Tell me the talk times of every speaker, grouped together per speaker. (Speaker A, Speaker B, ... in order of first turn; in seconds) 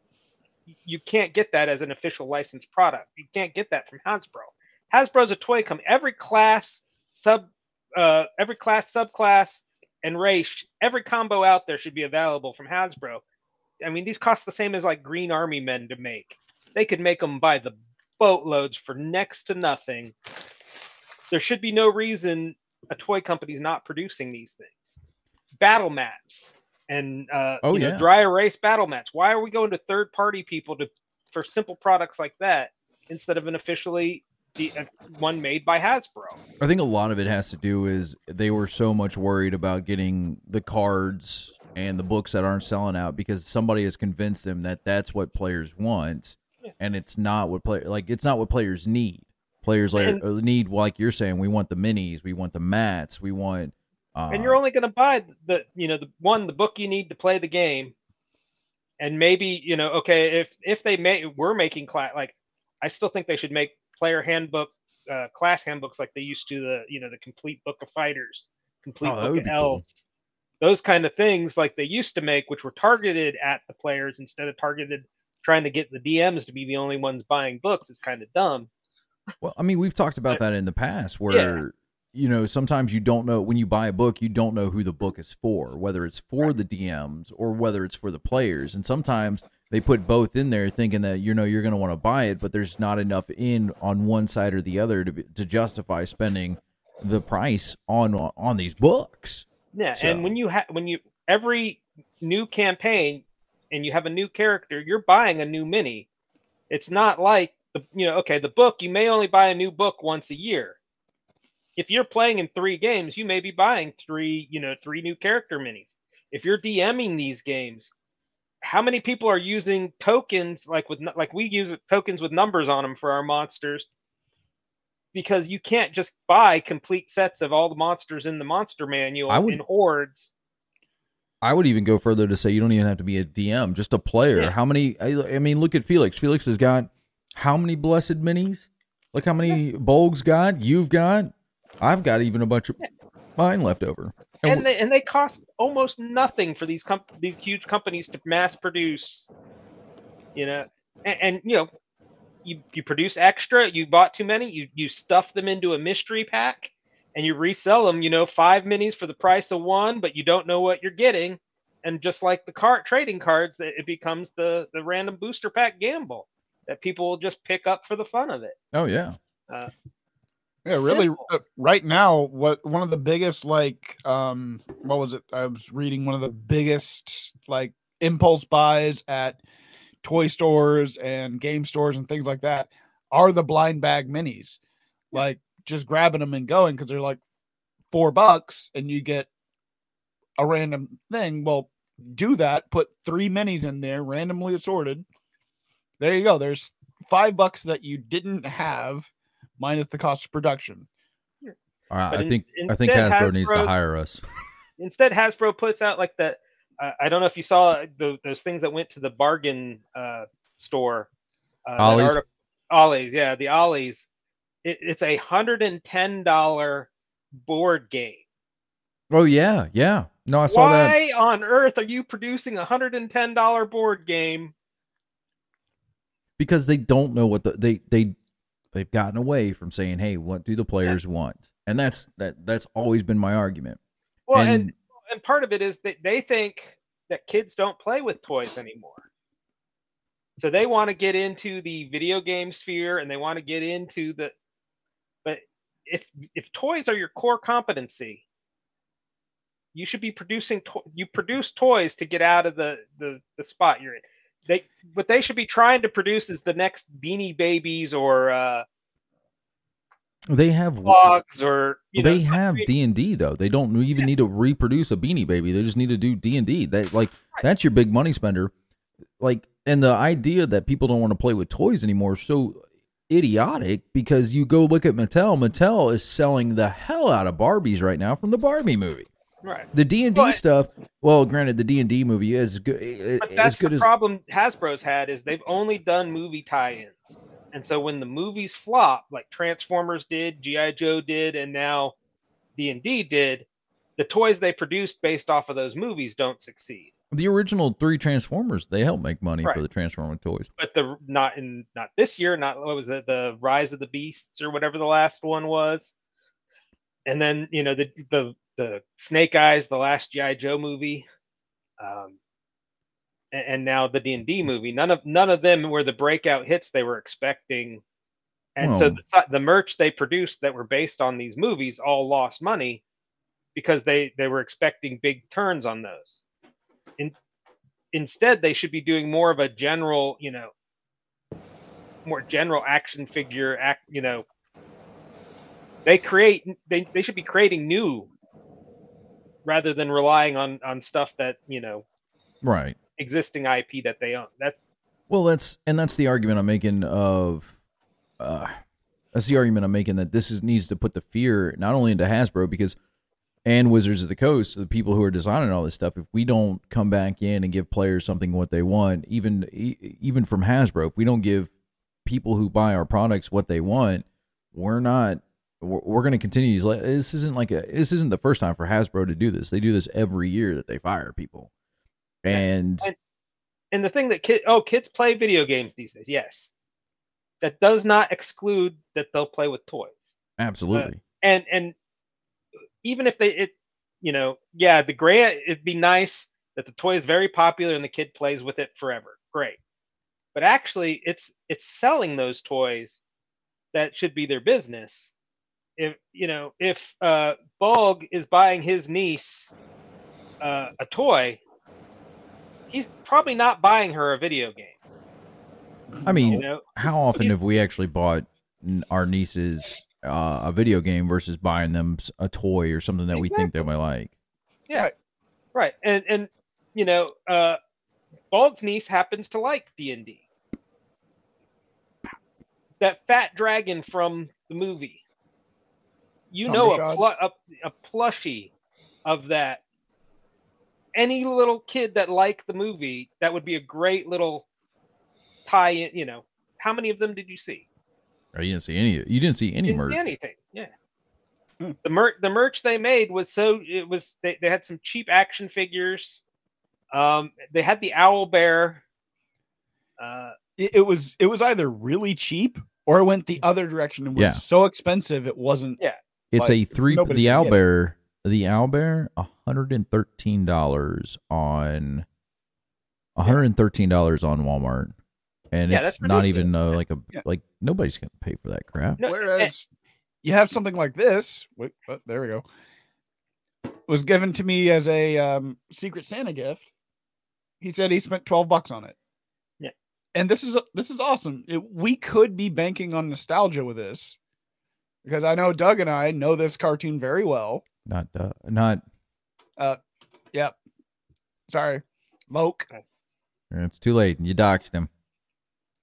Speaker A: 0.8-13.2, 13.8-20.1, 21.3-24.9, 25.6-36.4, 50.0-50.2, 54.3-57.9, 59.0-70.0, 70.6-78.7, 81.3-81.6, 99.7-106.1, 106.7-110.8, 111.8-117.9, 118.6-123.9, 125.1-130.3, 144.4-149.3, 150.3-151.7, 152.4-168.6, 170.7-171.3, 202.1-203.7, 204.8-211.1, 211.7-214.1, 214.6-216.9, 217.4-218.2, 220.5-224.5, 234.3-239.1, 240.4-244.3, 245.2-248.2, 249.7-258.6, 260.9-262.7, 279.4-280.4, 283.2-291.9, 292.6-293.5, 294.0-296.9, 300.6-305.9, 307.1-311.1, 311.8-312.2, 313.3-317.8, 318.6-322.8, 323.6-326.2, 327.9-330.5, 332.1-334.2, 335.9-338.1, 339.4-341.8, 343.0-344.6, 372.3-372.9, 373.7-376.5, 377.4-380.1, 380.7-381.7, 382.8-389.6, 390.4-393.0, 393.7-395.1, 395.8-399.5, 400.4-401.4, 402.7-404.8, 406.3-407.3, 413.1-413.6, 415.5-417.6, 418.3-420.2, 422.8-425.0, 426.3-428.5, 429.1-429.6, 431.0-434.5, 435.5-437.7, 439.7-440.7, 441.8-446.2, 446.9-448.8, 450.0-450.4, 465.7-466.5, 469.0-469.5
Speaker B: 27.6-28.1, 36.6-54.6, 69.0-69.8, 79.4-100.3, 129.3-129.6, 131.4-142.8, 143.4-144.7, 168.7-169.2, 201.9-204.2, 211.8-212.2, 219.1-221.0, 226.4-228.2, 228.7-233.8, 234.3-234.7, 260.3-261.1, 262.0-268.5, 269.2-279.1, 279.7-283.9, 297.1-300.5, 318.6-319.0, 342.4-342.8, 345.1-347.5, 348.2-348.6, 349.1-352.8, 353.4-361.5, 362.1-371.5, 372.2-372.9, 380.4-381.0, 406.1-414.1, 438.3-440.1, 454.2-454.4, 456.3-462.1, 463.2-464.9, 465.5-469.0, 487.9-488.8, 493.5-494.9
Speaker C: 170.7-179.4, 180.0-184.6, 185.1-187.2, 187.9-189.3, 190.4-195.1, 196.0-200.9, 406.0-406.4, 426.5-427.0, 450.6-455.8, 456.3-457.6, 469.1-469.7, 470.2-472.4, 473.9-476.7, 477.6-478.9, 480.1-484.2, 485.1-487.6, 491.5-492.7